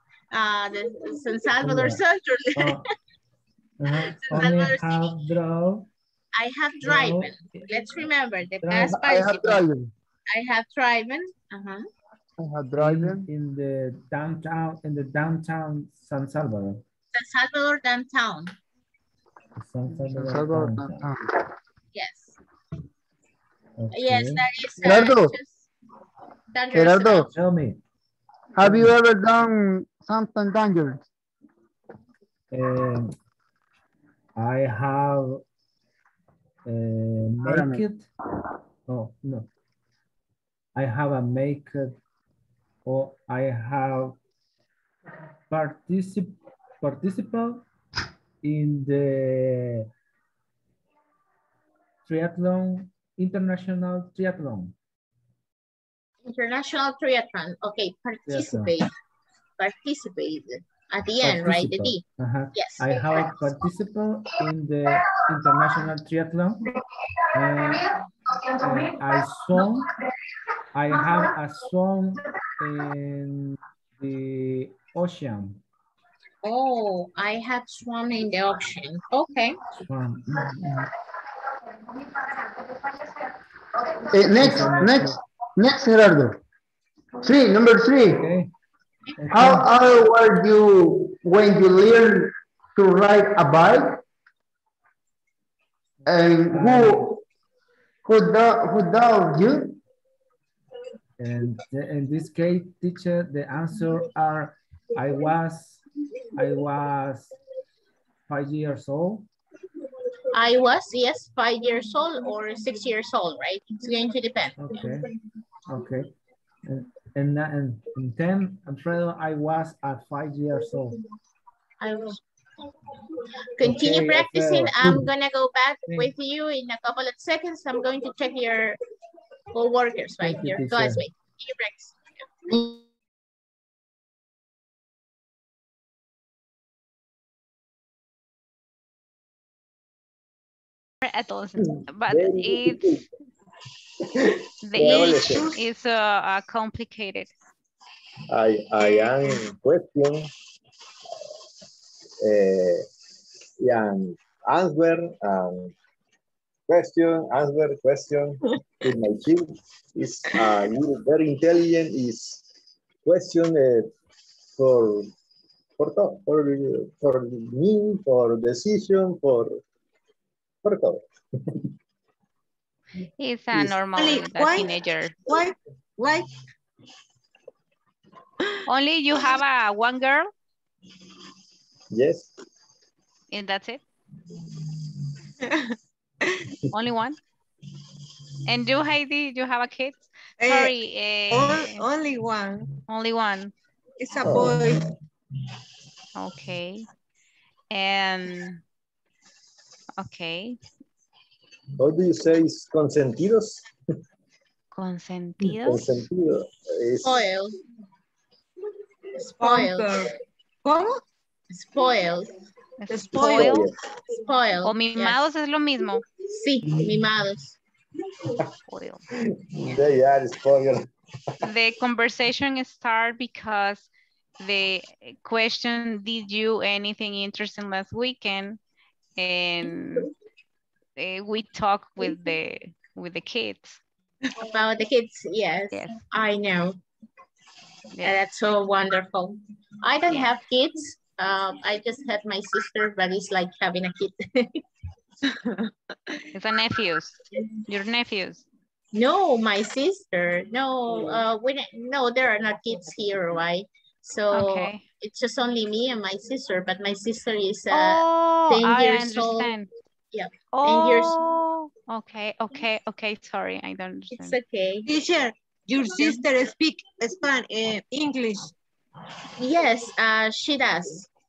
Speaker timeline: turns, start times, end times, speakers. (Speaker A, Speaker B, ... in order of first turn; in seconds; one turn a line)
Speaker A: 0.3-2.8
Speaker B: 1.6-2.0
Speaker B: 2.6-2.9
Speaker B: 3.8-5.9
Speaker A: 4.2-5.1
Speaker A: 6.3-9.6
Speaker B: 6.8-7.7
Speaker B: 8.6-9.0
Speaker C: 8.8-9.9
Speaker A: 10.3-11.9
Speaker C: 12.4-13.2
Speaker B: 12.8-16.9
Speaker A: 17.1-18.5
Speaker B: 19.6-21.1
Speaker C: 19.9-21.2
Speaker A: 21.9-22.4
Speaker B: 23.8-24.4
Speaker A: 23.9-25.7
Speaker C: 24.8-25.3
Speaker A: 26.5-27.3
Speaker C: 26.7-27.3
Speaker B: 27.3-27.8
Speaker C: 28.6-31.0
Speaker B: 28.6-28.9
Speaker B: 32.5-33.1
Speaker B: 34.4-35.4
Speaker B: 36.6-38.1
Speaker C: 37.4-37.9
Speaker B: 38.9-39.5
Speaker B: 40.8-42.0
Speaker B: 42.9-44.2
Speaker B: 45.5-47.7
Speaker B: 48.4-49.9
Speaker B: 52.0-54.8
Speaker A: 56.2-58.9
Speaker B: 58.3-58.8
Speaker A: 59.6-62.0
Speaker B: 61.2-66.7
Speaker A: 62.5-63.4
Speaker B: 67.3-67.9
Speaker B: 68.6-69.9
Speaker B: 70.7-75.6
Speaker A: 76.4-79.6
Speaker B: 79.8-80.9
Speaker C: 84.0-86.4
Speaker B: 84.3-85.2
Speaker C: 87.2-88.3
Speaker B: 88.2-88.5
Speaker B: 89.2-89.7
Speaker C: 89.3-94.0
Speaker B: 96.0-97.2
Speaker C: 96.1-97.2
Speaker C: 98.1-99.8
Speaker B: 101.2-107.3
Speaker B: 108.3-109.3
Speaker A: 110.3-114.8
Speaker B: 114.6-115.1
Speaker B: 115.7-121.0
Speaker A: 121.8-122.2
Speaker A: 123.5-128.8
Speaker B: 123.6-125.0
Speaker B: 125.9-126.1
Speaker A: 129.5-132.0
Speaker B: 130.2-131.0
Speaker C: 132.5-132.8
Speaker D: 141.0-143.1
Speaker E: 141.8-143.0
Speaker D: 144.6-147.3
Speaker E: 144.7-145.6
Speaker F: 144.8-145.7
Speaker E: 148.3-150.3
Speaker E: 152.2-152.9
Speaker E: 153.6-155.8
Speaker E: 156.7-162.5
Speaker E: 163.0-163.9
Speaker E: 164.6-165.1
Speaker E: 165.8-169.6
Speaker E: 170.6-171.7
Speaker D: 173.2-175.2
Speaker F: 173.9-176.3
Speaker D: 178.7-180.3
Speaker E: 181.9-182.3
Speaker D: 183.3-183.8
Speaker F: 185.4-186.5
Speaker D: 186.7-187.2
Speaker D: 188.5-191.8
Speaker F: 190.4-190.8
Speaker F: 191.3-192.8
Speaker D: 192.9-193.5
Speaker F: 194.0-194.9
Speaker E: 194.2-194.7
Speaker D: 196.2-196.9
Speaker D: 197.7-198.6
Speaker D: 200.0-200.6
Speaker E: 201.8-203.7
Speaker D: 204.7-206.0
Speaker E: 205.4-207.3
Speaker A: 207.0-207.6
Speaker A: 209.2-209.9
Speaker F: 209.4-211.0
Speaker A: 211.5-212.3
Speaker D: 212.8-213.7
Speaker F: 212.9-213.6
Speaker E: 213.2-213.7
Speaker A: 214.1-215.2
Speaker D: 214.6-216.1
Speaker A: 216.3-217.6
Speaker D: 218.7-219.0
Speaker E: 219.3-220.9
Speaker D: 221.4-223.9
Speaker D: 224.4-228.6
Speaker D: 229.2-230.1
Speaker D: 231.0-233.8
Speaker A: 234.4-236.8
Speaker D: 235.7-236.0
Speaker A: 238.0-244.6
Speaker D: 246.3-248.4
Speaker A: 248.9-259.5
Speaker D: 254.3-254.8
Speaker D: 257.7-259.7
Speaker A: 260.1-261.2
Speaker D: 260.5-264.4
Speaker A: 264.1-264.9
Speaker F: 264.9-268.5
Speaker A: 269.4-271.1